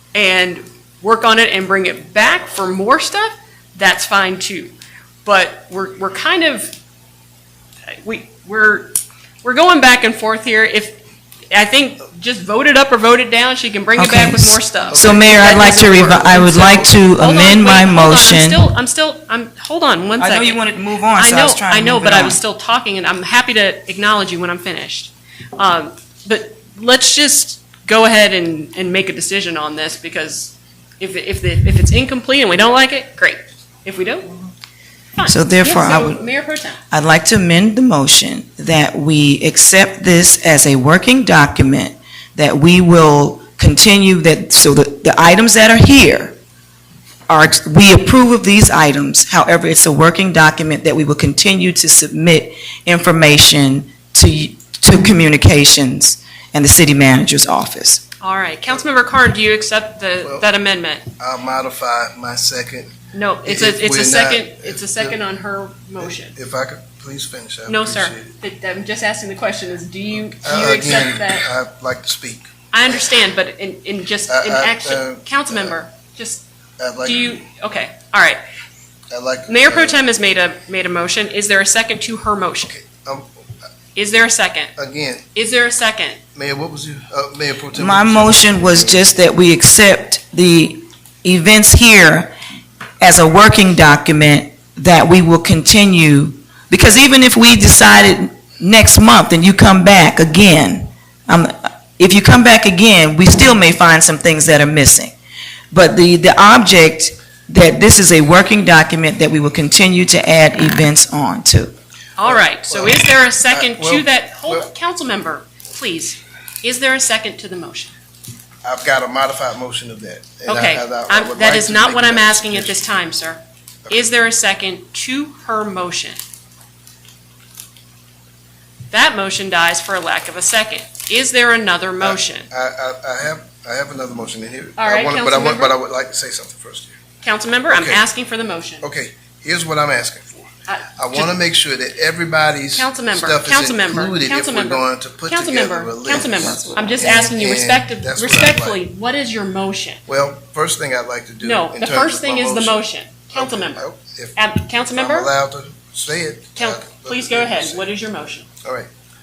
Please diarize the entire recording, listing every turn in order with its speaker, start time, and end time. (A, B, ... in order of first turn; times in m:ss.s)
0:00.1-0:06.8 A
0:08.0-0:11.0 A
0:11.5-0:20.6 A
0:14.0-0:18.6 B
0:14.9-0:16.9 C
0:20.2-0:22.4 B
0:21.1-0:34.4 A
0:35.2-0:36.8 A
0:35.2-0:36.2 B
0:36.9-0:46.4 B
0:47.3-0:58.0 B
0:58.2-1:01.1 A
1:00.2-1:00.5 C
1:01.2-1:02.9 C
1:03.1-1:06.4 A
1:03.4-1:05.2 C
1:06.0-1:08.3 C
1:07.7-1:11.5 A
1:10.4-1:12.5 C
1:12.7-1:16.4 A
1:14.3-1:15.8 C
1:16.8-1:17.4 C
1:17.0-1:18.4 A
1:19.1-1:20.0 C
1:19.5-1:22.7 A
1:22.7-1:23.3 C
1:24.0-1:24.7 A
1:24.8-1:25.3 C
1:25.4-1:26.2 A
1:26.4-1:29.0 C
1:27.8-1:32.3 B
1:33.0-1:45.1 B
1:45.7-1:51.7 B
1:52.2-1:57.9 A
1:52.2-1:54.7 C
1:58.6-2:02.8 C
2:00.5-2:06.2 A
2:08.9-2:12.5 A
2:12.0-2:17.0 C
2:14.8-2:15.8 A
2:17.2-2:18.9 A
2:17.7-2:18.0 C
2:18.8-2:28.8 C
2:20.7-2:21.4 A
2:22.7-2:30.0 A
2:26.3-2:27.0 B
2:30.1-2:34.4 C
2:31.4-2:33.8 A
2:34.4-2:35.3 A
2:34.9-2:37.9 C
2:36.6-2:38.5 A
2:38.6-2:38.9 C